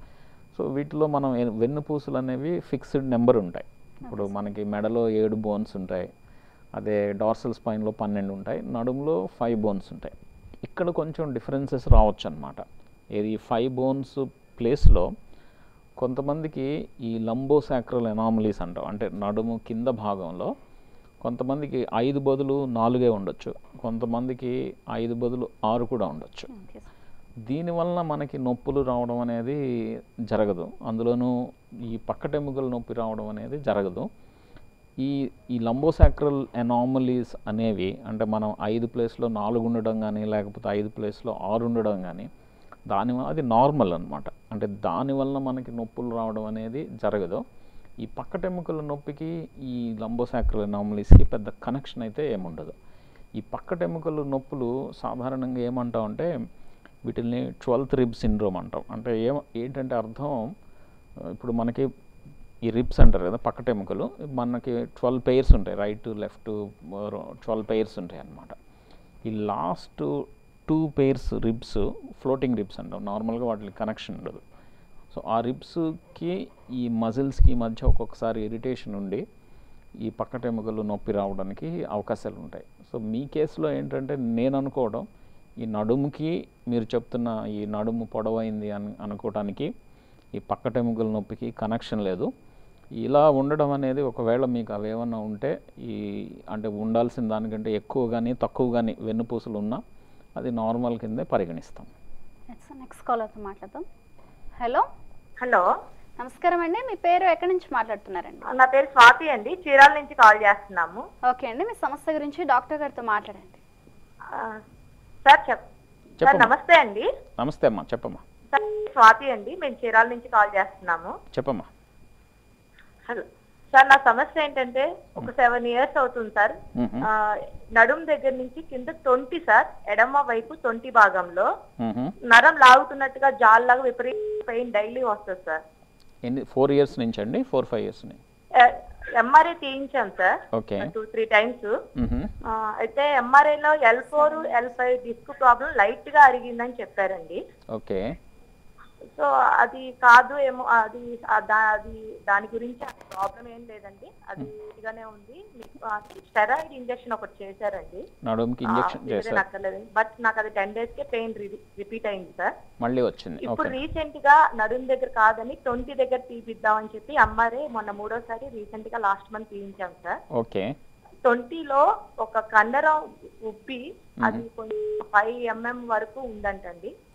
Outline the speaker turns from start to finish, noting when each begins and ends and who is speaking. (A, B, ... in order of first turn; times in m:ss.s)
0:00.5-0:06.1 A
0:04.0-0:04.3 B
0:06.7-0:15.1 A
0:16.0-0:20.5 A
0:21.2-0:26.5 A
0:26.5-0:26.9 B
0:27.4-0:34.1 A
0:35.0-0:42.3 A
0:42.9-0:47.4 A
0:48.0-0:52.8 A
0:53.4-0:56.3 A
0:57.0-1:00.4 A
1:01.2-1:01.9 A
1:02.6-1:08.6 A
1:09.2-1:14.4 A
1:15.1-1:19.2 A
1:20.0-1:25.1 A
1:25.6-1:29.7 A
1:30.3-1:32.3 A
1:33.0-1:39.8 A
1:40.4-1:41.9 A
1:42.5-1:43.8 B
1:44.6-1:44.8 B
1:45.4-1:45.7 C
1:46.2-1:48.5 B
1:48.5-1:51.0 C
1:51.3-1:53.6 B
1:54.3-1:54.6 C
1:55.2-1:55.6 C
1:56.2-1:56.5 A
1:56.2-1:57.1 C
1:57.4-1:58.2 A
1:58.5-2:01.1 C
2:01.3-2:01.7 A
2:03.1-2:11.5 C
2:06.7-2:07.1 A
2:11.8-2:12.1 A
2:12.2-2:15.6 C
2:16.2-2:18.2 A
2:18.6-2:21.7 C
2:20.5-2:20.9 A
2:22.0-2:22.3 A
2:22.5-2:27.4 C
2:24.1-2:24.6 B
2:27.7-2:28.2 A
2:29.1-2:38.1 C
2:38.2-2:39.4 A
2:38.6-2:42.5 C
2:42.8-2:43.8 A
2:43.4-2:50.2 C
2:50.3-2:50.7 A
2:51.2-2:56.9 C
2:54.2-2:54.4 A